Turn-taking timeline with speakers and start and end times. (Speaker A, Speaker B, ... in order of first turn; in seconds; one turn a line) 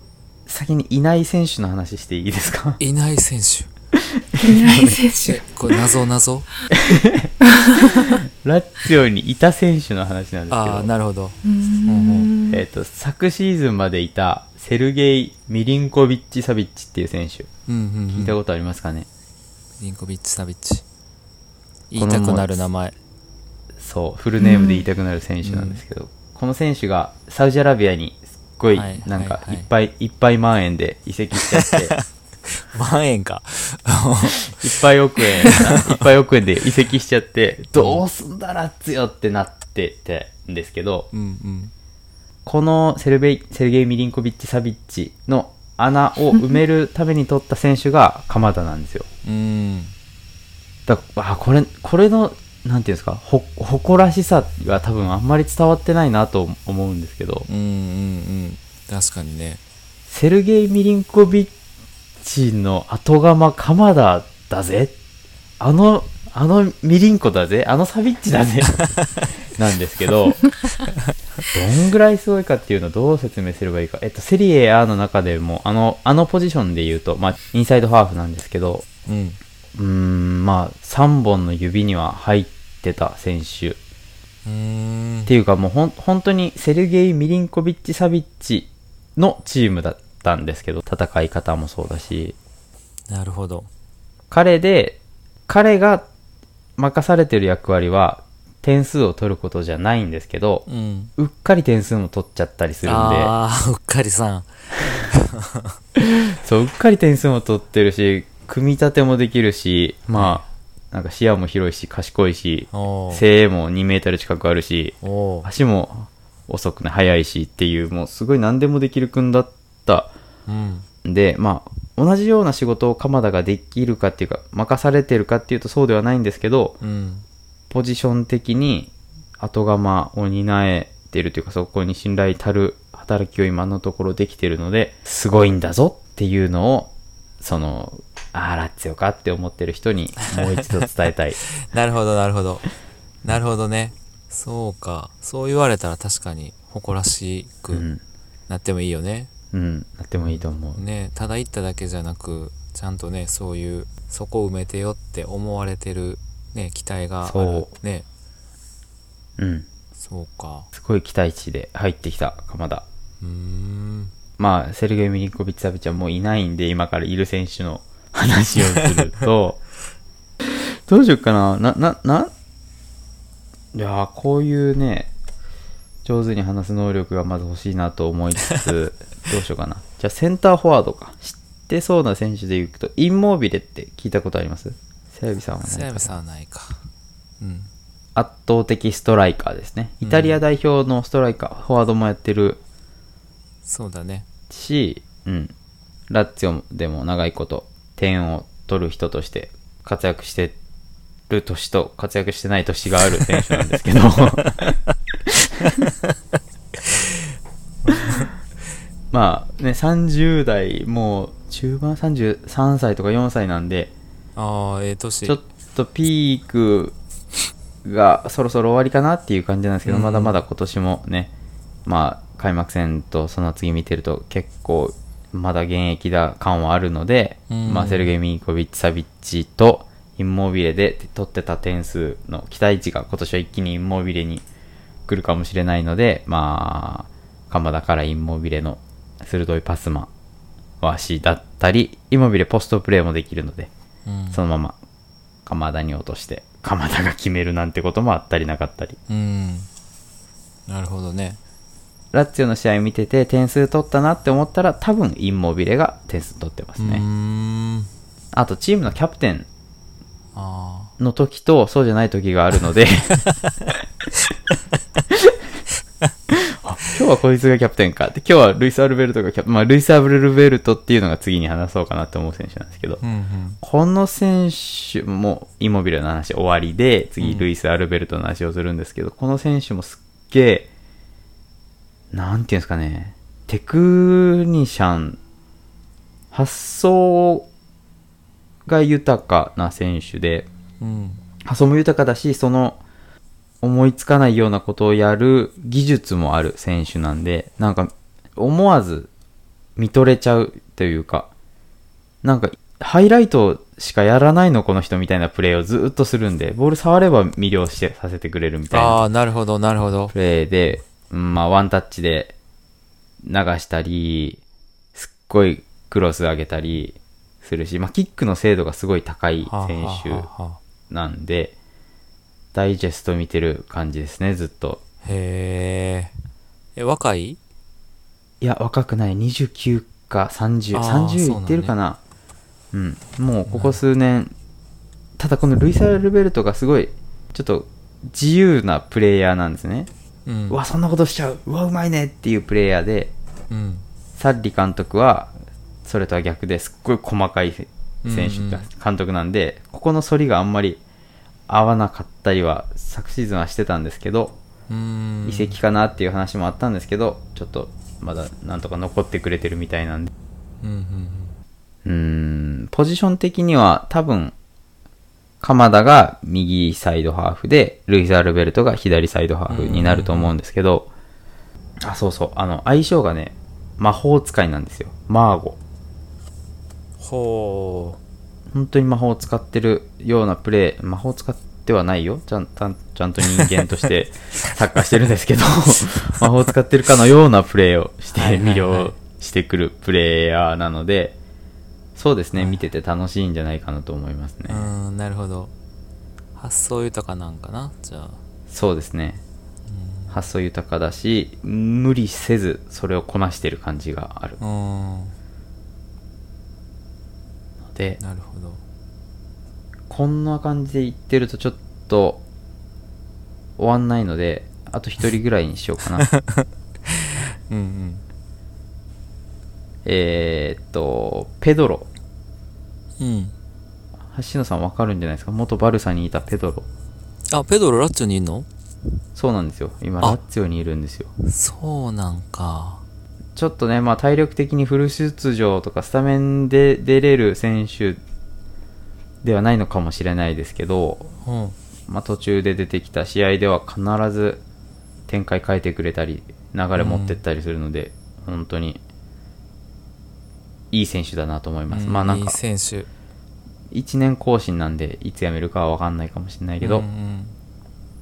Speaker A: 0.5-2.8
Speaker B: 2.8-3.7
Speaker A: 4.0-5.0
Speaker C: 4.4-5.4
Speaker B: 5.2-6.5
Speaker A: 6.7-10.9
Speaker C: 7.5-8.2
Speaker B: 10.5-12.3
Speaker C: 11.4-12.6
Speaker A: 12.5-17.5
Speaker B: 17.7-18.4
Speaker A: 18.1-19.1
Speaker B: 19.8-20.8
Speaker B: 21.9-22.9
Speaker A: 21.9-22.5
Speaker A: 23.8-31.9
Speaker C: 24.4-24.9
Speaker B: 25.4-25.8
Speaker B: 28.7-29.7
Speaker B: 31.7-36.0
Speaker A: 34.5-41.1
Speaker B: 37.8-38.0
Speaker B: 41.1-41.7
Speaker A: 42.4-49.1
Speaker B: 49.2-49.9
Speaker A: 50.9-57.5
Speaker B: 57.5-59.6
Speaker A: 60.1-61.5
Speaker A: 62.2-64.9
Speaker A: 65.6-68.8
Speaker A: 69.4-70.5
Speaker A: 71.5-78.9
Speaker B: 79.0-79.4
Speaker A: 79.7-83.8
Speaker B: 84.4-85.3
Speaker A: 85.3-92.3
Speaker B: 93.1-93.7
Speaker A: 94.3-96.0
Speaker A: 96.8-103.3
Speaker B: 100.7-101.1
Speaker B: 102.8-105.8
Speaker A: 106.3-120.1
Speaker B: 110.1-110.5
Speaker B: 112.7-113.2
Speaker B: 115.0-115.5
Speaker B: 120.5-120.9
Speaker A: 121.0-126.8
Speaker B: 126.8-127.2
Speaker A: 127.7-141.4
Speaker B: 140.4-140.6
Speaker B: 141.6-142.6
Speaker B: 143.2-147.8
Speaker A: 147.7-148.0
Speaker B: 148.5-149.3
Speaker A: 149.5-150.8
Speaker B: 150.2-158.1
Speaker A: 157.2-157.7
Speaker A: 159.4-159.7
Speaker B: 159.9-160.7
Speaker A: 160.7-162.8
Speaker B: 163.2-164.1
Speaker A: 164.4-169.6
Speaker A: 170.4-172.3
Speaker A: 173.7-175.1
Speaker A: 176.0-186.2
Speaker B: 185.6-186.8
Speaker B: 187.4-187.7
Speaker A: 188.1-192.6
Speaker B: 190.0-190.4
Speaker B: 193.6-194.2
Speaker A: 194.5-195.5
Speaker A: 196.1-200.6
Speaker A: 201.3-204.7
Speaker A: 205.3-205.7
Speaker B: 205.7-207.1
Speaker B: 207.8-208.3
Speaker A: 209.1-213.9
Speaker B: 214.3-215.4
Speaker A: 215.2-217.0
Speaker A: 217.8-221.3
Speaker B: 219.8-220.4
Speaker A: 221.8-234.4
Speaker B: 227.5-228.1
Speaker A: 235.1-240.1
Speaker A: 240.8-243.7
Speaker B: 244.1-244.4
Speaker A: 244.3-244.8
Speaker A: 245.4-249.0
Speaker B: 249.1-249.7
Speaker B: 250.7-251.4
Speaker A: 252.1-257.0
Speaker B: 256.8-257.9
Speaker A: 258.3-259.5
Speaker B: 260.3-260.9
Speaker A: 261.0-263.2
Speaker A: 265.1-265.4
Speaker A: 266.3-273.0
Speaker B: 273.0-273.6
Speaker A: 273.6-280.7
Speaker B: 277.2-277.5
Speaker A: 282.1-285.2
Speaker A: 286.3-287.5
Speaker A: 288.6-290.5
Speaker B: 290.8-291.2
Speaker A: 291.4-292.8
Speaker A: 293.6-299.1
Speaker A: 299.8-301.3
Speaker A: 302.2-309.0
Speaker B: 308.7-310.1
Speaker A: 310.1-312.3
Speaker A: 313.2-314.4
Speaker A: 314.9-320.3
Speaker B: 319.4-320.6
Speaker A: 320.9-321.5
Speaker A: 322.5-324.8
Speaker B: 325.0-326.1
Speaker B: 326.8-327.4
Speaker A: 328.4-332.0
Speaker B: 330.7-331.7
Speaker A: 332.7-334.3
Speaker B: 333.5-333.8
Speaker A: 335.2-339.9
Speaker B: 340.2-340.6
Speaker A: 340.5-343.1
Speaker B: 343.5-343.9
Speaker A: 344.2-345.3
Speaker A: 345.8-350.8
Speaker B: 348.0-348.7
Speaker A: 351.5-354.4
Speaker B: 354.7-355.6
Speaker A: 355.2-360.1
Speaker B: 360.6-361.4
Speaker A: 361.8-364.3
Speaker A: 365.4-370.9
Speaker B: 369.5-370.3
Speaker A: 371.8-375.6
Speaker B: 377.0-378.0
Speaker A: 378.5-391.1
Speaker B: 388.1-389.0
Speaker A: 391.9-394.7
Speaker B: 392.3-392.6
Speaker B: 394.5-395.5
Speaker B: 396.4-398.2
Speaker A: 398.5-399.2
Speaker B: 399.7-400.2
Speaker A: 400.1-404.4
Speaker B: 404.4-405.1
Speaker A: 407.7-408.0
Speaker B: 408.0-408.6
Speaker A: 409.9-412.2
Speaker A: 413.6-416.1
Speaker B: 416.0-418.0
Speaker A: 419.8-421.9
Speaker B: 423.0-423.3
Speaker A: 424.1-426.7
Speaker B: 427.3-428.5
Speaker A: 429.1-431.1
Speaker B: 431.2-432.8
Speaker A: 433.4-438.0
Speaker A: 439.2-441.1
Speaker B: 441.2-441.6
Speaker A: 441.9-444.4
Speaker A: 445.1-448.8
Speaker B: 446.8-447.2
Speaker A: 450.7-452.4
Speaker B: 451.7-452.9
Speaker A: 453.7-456.9
Speaker B: 456.6-457.4